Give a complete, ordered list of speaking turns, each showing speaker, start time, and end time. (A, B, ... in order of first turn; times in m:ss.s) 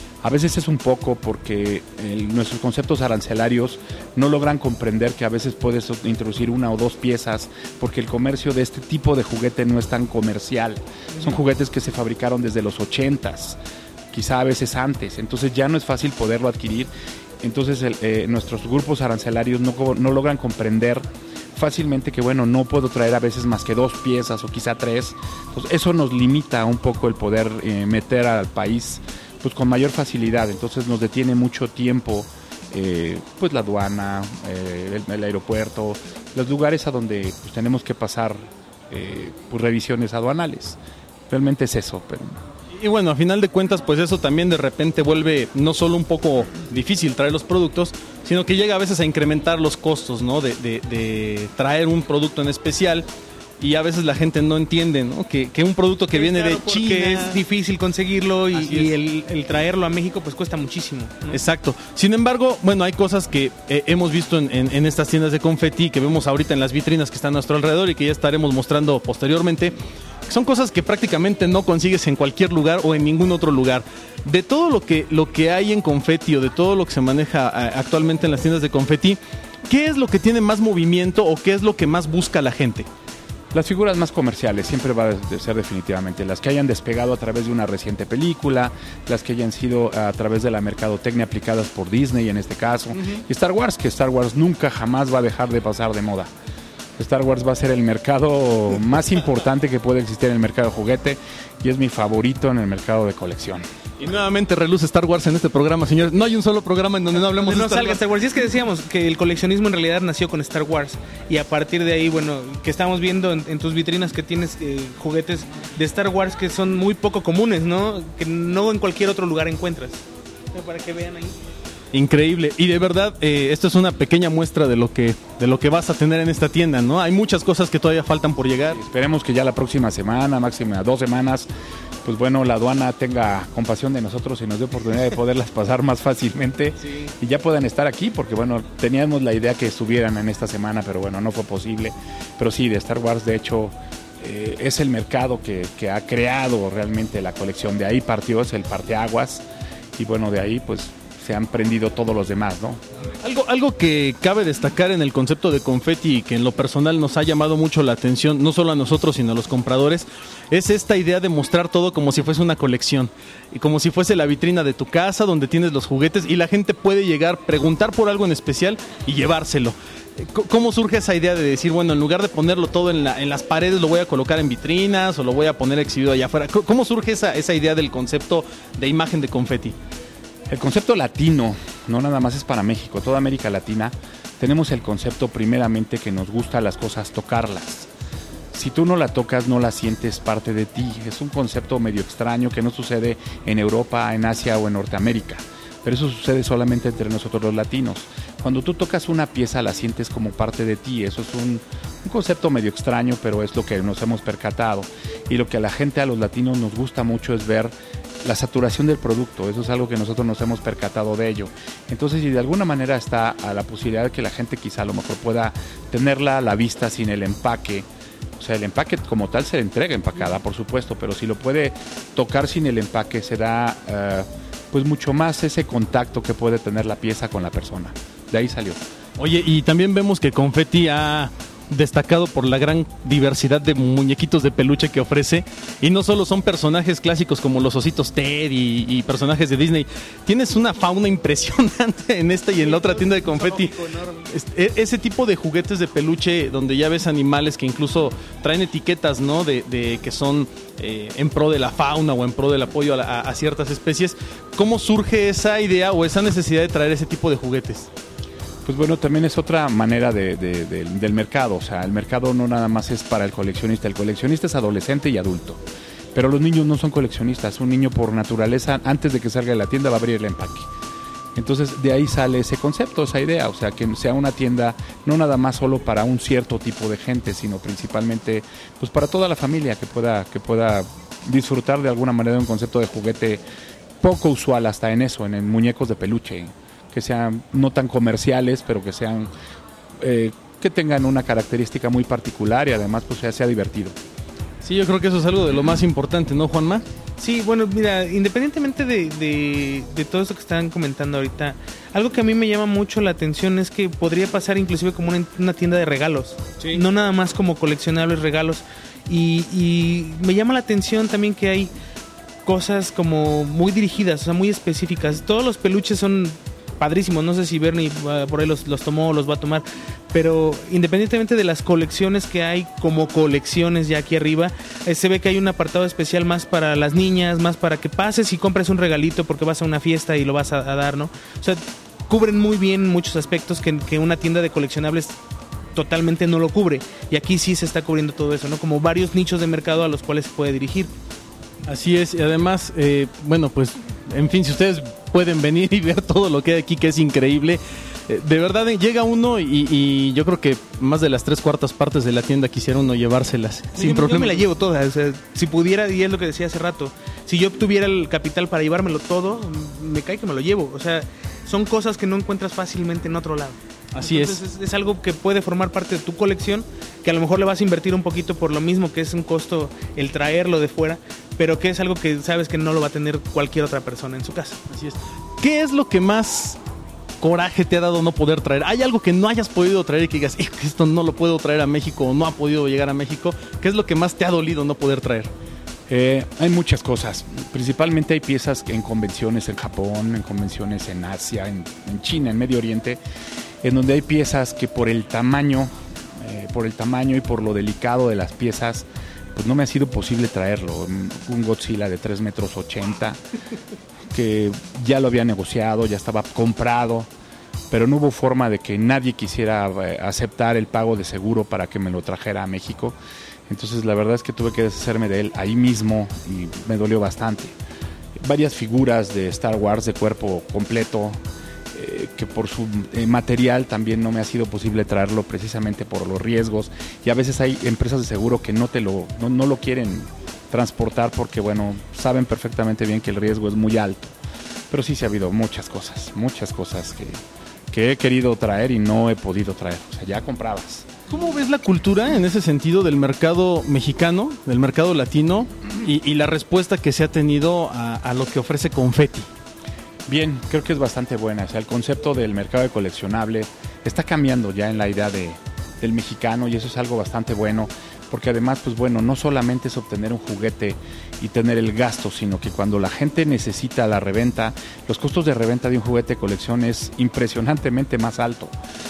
0:00.2-0:13.6 A
0:14.1-0:16.9 A
0:17.4-0:40.8 A
0:41.3-0:42.4 A
0:42.8-0:53.1 B
0:53.6-0:57.4 B
0:56.1-1:01.4 C
0:58.5-0:58.9 B
1:01.3-1:09.8 B
1:10.3-1:22.9 B
1:23.5-1:36.3 A
1:32.9-1:33.2 B
1:37.0-1:43.6 A
1:44.0-1:48.0 B
1:47.2-2:01.4 C
2:01.9-2:08.8 B
2:08.7-2:11.5 A
2:12.0-2:29.4 A
2:30.0-2:32.8 A
2:33.2-2:59.8 B
3:00.5-3:07.9 A
3:08.5-3:37.9 A
3:38.4-3:48.8 A
3:49.2-4:17.9 B
4:02.6-4:04.3 C
4:18.6-4:25.6 A
4:26.1-4:30.7 A
4:31.3-4:43.4 A
4:44.0-4:49.3 A
4:50.0-4:53.9 A
4:54.6-4:56.8 B
4:57.2-5:11.7 C
5:12.4-5:35.2 C
5:35.7-5:40.9 C
5:41.6-5:54.4 B
5:53.8-6:14.6 C
6:03.9-6:04.4 B
6:14.7-6:16.6 B
6:17.2-6:25.3 B
6:25.9-6:33.0 A
6:33.6-6:43.2 A
6:44.1-6:47.1 A
6:47.7-6:53.0 A
6:53.5-6:57.6 A
6:58.2-7:01.2 A
7:01.7-7:14.1 A
7:14.7-7:20.9 A
7:21.1-7:29.3 B
7:30.1-7:48.5 A